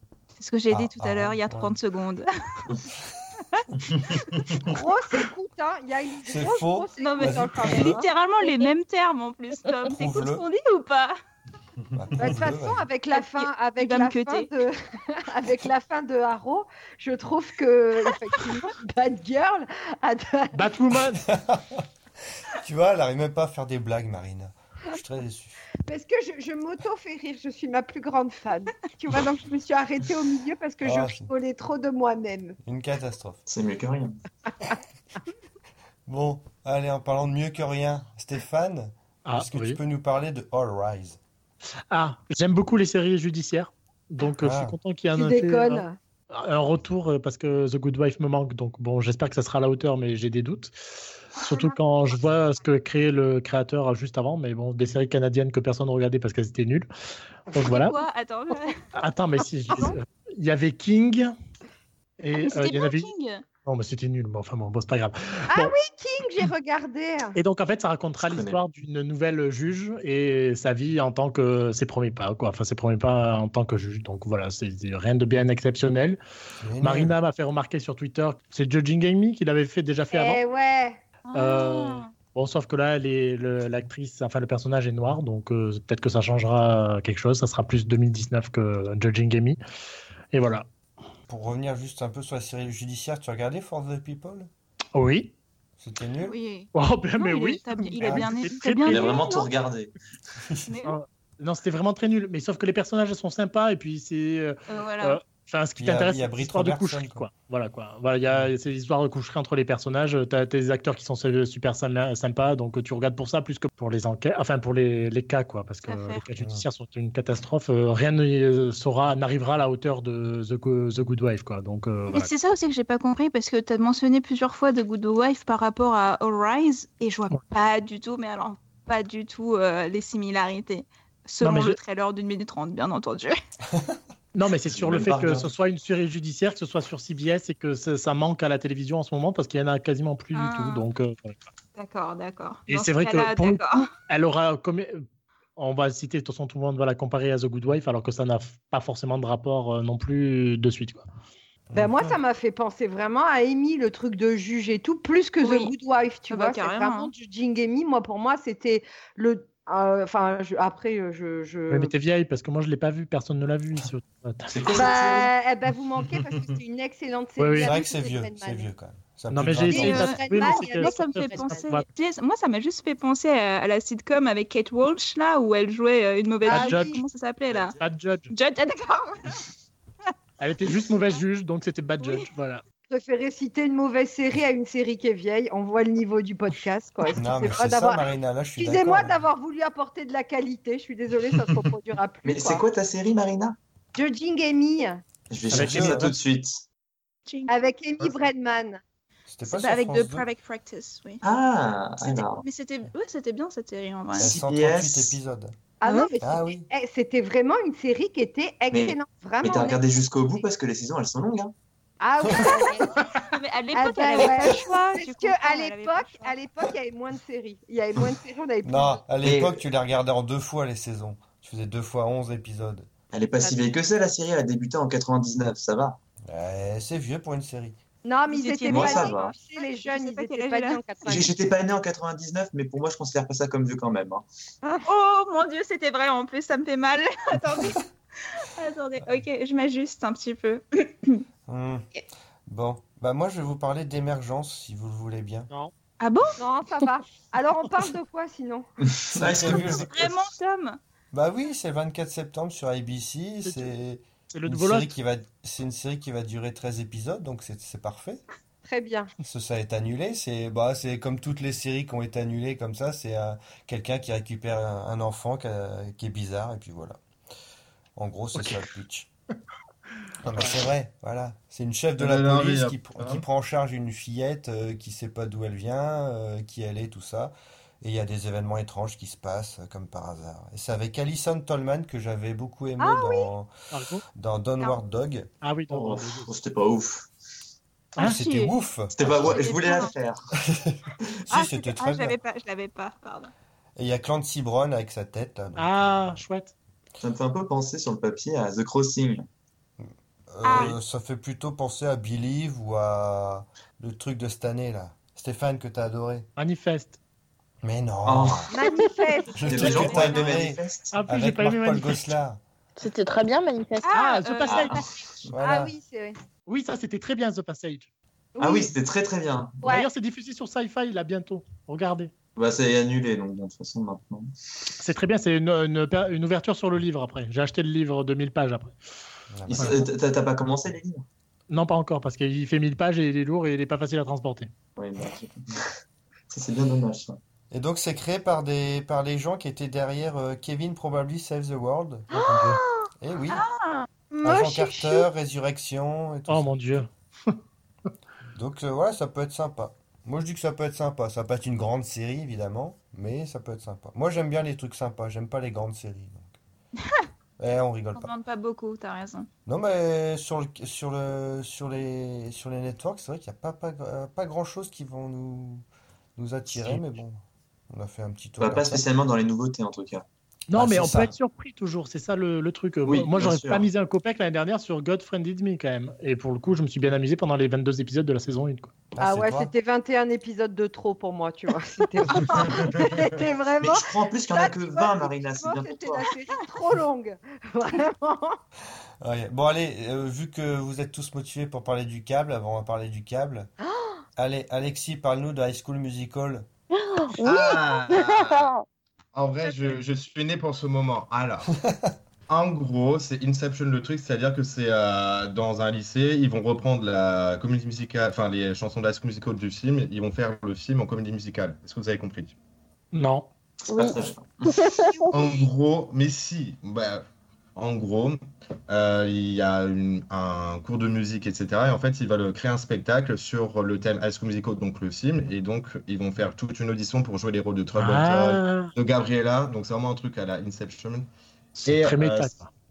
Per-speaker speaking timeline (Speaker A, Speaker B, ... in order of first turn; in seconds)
Speaker A: 0.4-2.3, 7.0-11.1, 13.1-14.5, 57.6-58.8, 62.4-63.4, 81.2-82.1, 96.2-99.5, 100.7-101.0, 104.7-105.2, 115.8-116.2, 122.1-133.4, 140.3-140.8, 141.8-143.9, 155.4-155.7, 156.3-157.1, 169.7-177.8, 178.3-179.4, 182.0-182.2, 197.3-197.5, 199.4-201.2, 202.0-204.3, 213.3-216.3, 228.3-231.3, 234.8-241.2, 246.0-246.4, 249.5-250.8, 288.0-289.9, 291.3-293.3, 300.4-300.8, 309.5-310.4, 313.8-314.8, 343.3-343.9, 357.9-359.3
Speaker B: 0.7-1.8, 6.2-8.0, 9.9-10.4, 11.9-12.9, 21.2-21.9, 22.5-25.6, 30.8-31.3, 32.6-33.4, 36.1-41.2, 44.4-44.8, 76.6-77.1, 91.3-94.5, 95.8-96.4, 98.0-98.3, 105.8-107.3, 116.4-116.6, 151.7-152.2, 167.6-170.1, 187.1-189.2, 195.5-196.2, 199.3-200.3, 204.2-205.5, 206.2-206.7, 218.6-222.9, 226.3-227.8, 241.5-241.8, 242.5-245.5, 249.1-250.1, 251.1-258.2, 259.2-267.0, 267.9-269.1, 270.2-283.5, 284.1-285.3, 288.0-289.4, 290.5-292.2, 293.8-296.2, 299.8-306.3, 307.6-308.5, 309.4-312.4, 315.3-315.7, 329.3-329.9, 337.5-343.4, 344.2-346.8, 348.3-356.4, 357.4-358.1, 359.4-365.6, 366.1-368.9, 370.5-371.1, 378.9-379.5, 389.0-393.5, 394.1-396.5, 401.6-401.9
Speaker C: 4.6-8.1, 12.2-20.7, 25.9-32.6, 45.1-46.0, 65.5-67.4, 80.1-81.0, 151.7-161.9, 164.7-168.7, 169.7-171.6, 176.4-177.0, 182.9-188.0, 188.6-192.6, 193.9-195.0, 197.5-198.8, 205.8-210.0, 212.0-219.0, 228.0-231.3, 246.4-248.7, 258.6-259.1, 282.8-283.3, 308.5-310.2, 315.4-316.2, 318.4-318.7, 319.6-319.9, 342.2-342.5, 344.2-345.0, 379.0-388.4
Speaker D: 20.5-21.2, 39.2-39.8, 41.9-50.7, 51.4-56.9, 57.5-57.9, 59.0-61.3, 62.2-63.1, 63.6-65.7, 67.3-76.2, 76.8-80.4, 81.3-89.6, 90.3-90.7, 94.9-95.3, 96.7-99.2, 100.8-122.3, 131.4-131.8, 134.3-141.4, 142.7-145.0, 145.6-151.1, 161.7-164.5, 167.4-167.7, 169.3-171.8, 176.5-176.9, 177.8-178.3, 180.4-182.6, 195.5-196.1, 253.4-253.7, 254.3-254.9, 283.7-284.0, 285.4-286.3, 295.6-296.5, 306.4-307.0, 310.9-312.0, 313.9-314.8, 316.5-317.9, 319.6-322.1, 324.8-328.7, 331.5-334.5, 346.3-347.4, 366.5-366.8, 370.5-378.7, 412.9-413.3, 427.8-428.7, 431.6-432.5
Speaker E: 33.5-34.2, 68.2-68.6, 98.9-99.9, 134.7-135.5, 164.5-165.3, 192.2-193.6, 195.3-196.6, 201.2-202.4, 204.2-205.2, 208.7-211.5, 219.2-219.6, 223.1-226.0, 228.7-229.3, 231.0-234.3, 248.9-250.1, 285.7-287.1, 288.9-290.3, 297.0-299.2, 308.0-308.5, 309.4-311.0, 314.4-315.2, 318.4-319.6, 322.4-324.3, 329.4-331.0, 334.8-335.7, 336.3-337.2, 368.4-370.0, 372.9-373.7, 383.6-386.1, 413.7-414.6
Speaker F: 272.0-273.2, 382.4-382.8, 397.2-398.5, 399.1-401.5, 402.3-412.3, 415.1-417.0, 417.5-431.1, 431.6-432.3
Speaker G: 312.8-313.9, 396.7-398.6, 413.7-415.1